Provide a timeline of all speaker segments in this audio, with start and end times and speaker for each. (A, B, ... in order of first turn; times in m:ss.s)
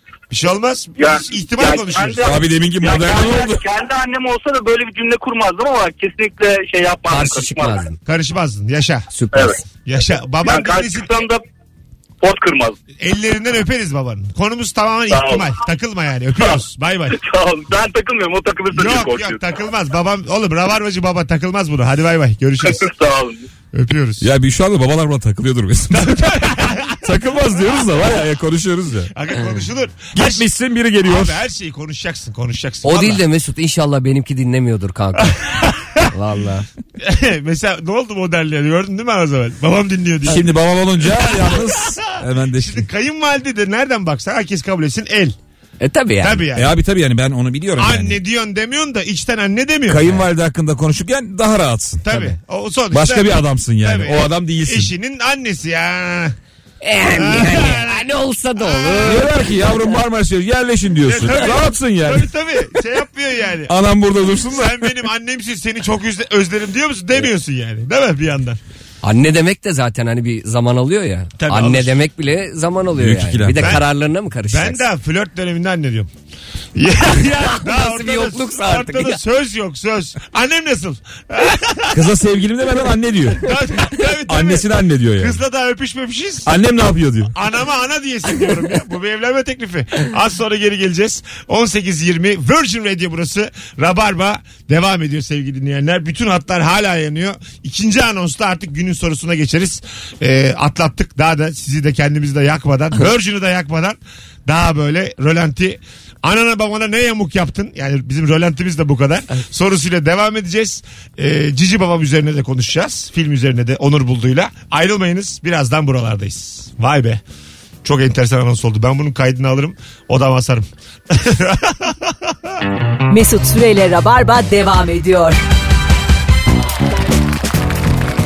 0:00.3-0:02.3 A
0:01.0-0:07.8 B
0:02.2-0:03.6 C
0:07.1-0:08.0 D
0:08.0-0:09.1 A
0:09.1-0:09.6 D
0:09.8-0:11.1 A
0:10.4-0:11.4 B
0:12.2-0:12.8 B
0:13.0-0:17.2 A
0:15.1-0:15.5 B
0:17.1-0:19.4 B
0:18.7-0:22.9 A
0:22.6-0:23.4 B
0:23.7-0:24.3 A
0:24.2-0:26.4 C
0:25.9-0:27.0 A
0:27.0-0:29.1 C
0:29.1-0:30.4 A
0:30.1-0:31.4 C
0:31.0-0:33.2 A
0:32.8-0:35.4 D
0:35.2-0:36.1 A
0:36.1-0:36.7 D
0:37.0-0:40.5 A
0:40.2-0:42.9 C
0:41.0-0:42.0 A
0:42.5-0:45.4 A
0:45.8-0:46.4 D
0:46.2-0:46.7 A
0:46.5-0:48.2 C
0:47.8-0:50.1 A
0:49.9-0:52.3 C
0:52.0-0:56.3 A
0:52.9-0:54.9 C
0:56.8-1:00.0 D
0:57.1-0:59.3 A
0:59.0-1:02.3 C
1:01.0-1:03.7 A
1:03.7-1:04.9 C
1:04.5-1:08.6 A
1:09.0-1:14.8 D
1:11.4-1:12.0 A
1:12.9-1:13.8 C
1:13.6-1:13.9 A
1:14.5-1:16.1 A
1:16.7-1:22.0 A
1:17.4-1:19.2 D
1:21.9-1:23.5 C
1:23.4-1:24.7 A
1:24.3-1:25.4 C
1:25.2-1:26.5 A
1:26.4-1:27.3 C
1:27.3-1:57.2 A
1:57.8-2:02.3 A
2:03.1-2:05.4 E